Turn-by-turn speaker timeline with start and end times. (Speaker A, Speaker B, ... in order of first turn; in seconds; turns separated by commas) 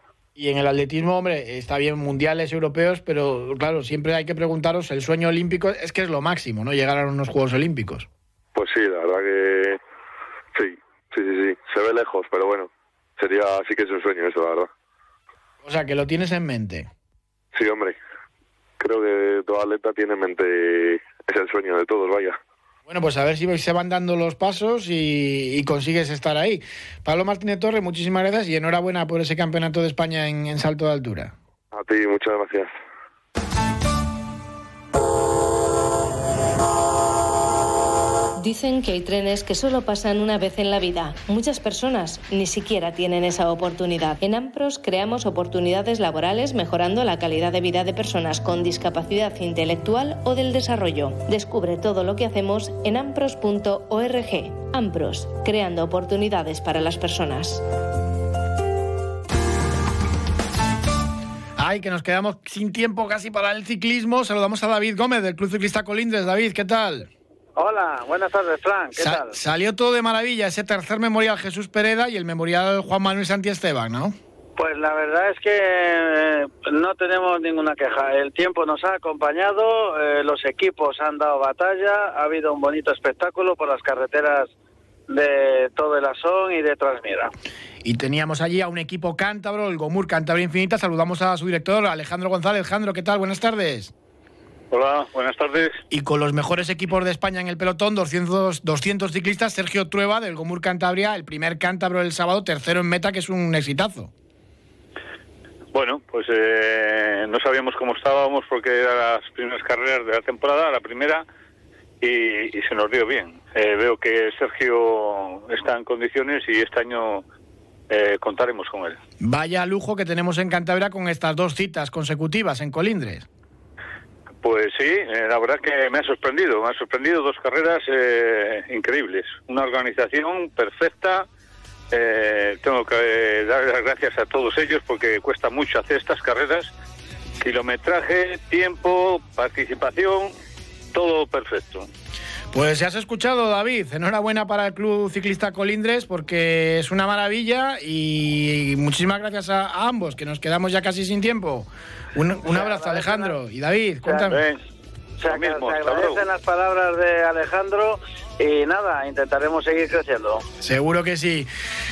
Speaker A: 0.4-8.1, Speaker B: 8.6-9.8, Speaker B: 10.5-14.7, Speaker A: 15.6-16.9, Speaker B: 17.5-18.0, Speaker B: 18.8-22.4, Speaker A: 22.9-31.3, Speaker B: 31.7-32.7, Speaker C: 38.4-57.6, Speaker A: 61.6-67.1, Speaker D: 67.6-69.4, Speaker A: 69.0-74.2, Speaker D: 74.6-84.5, Speaker D: 85.1-87.3, Speaker A: 87.8-93.9, Speaker E: 94.7-95.8, Speaker A: 95.9-104.1, Speaker E: 105.7-111.2, Speaker E: 112.0-117.2, Speaker E: 117.9-119.0, Speaker A: 119.2-123.3, Speaker E: 124.4-131.3, Speaker E: 131.9-136.7, Speaker E: 137.4-140.3, Speaker E: 140.9-141.9, Speaker A: 142.5-154.4, Speaker D: 152.5-153.4, Speaker D: 154.1-154.4, Speaker E: 154.3-154.6, Speaker D: 155.2-160.4, Speaker E: 155.2-156.3, Speaker A: 160.6-161.5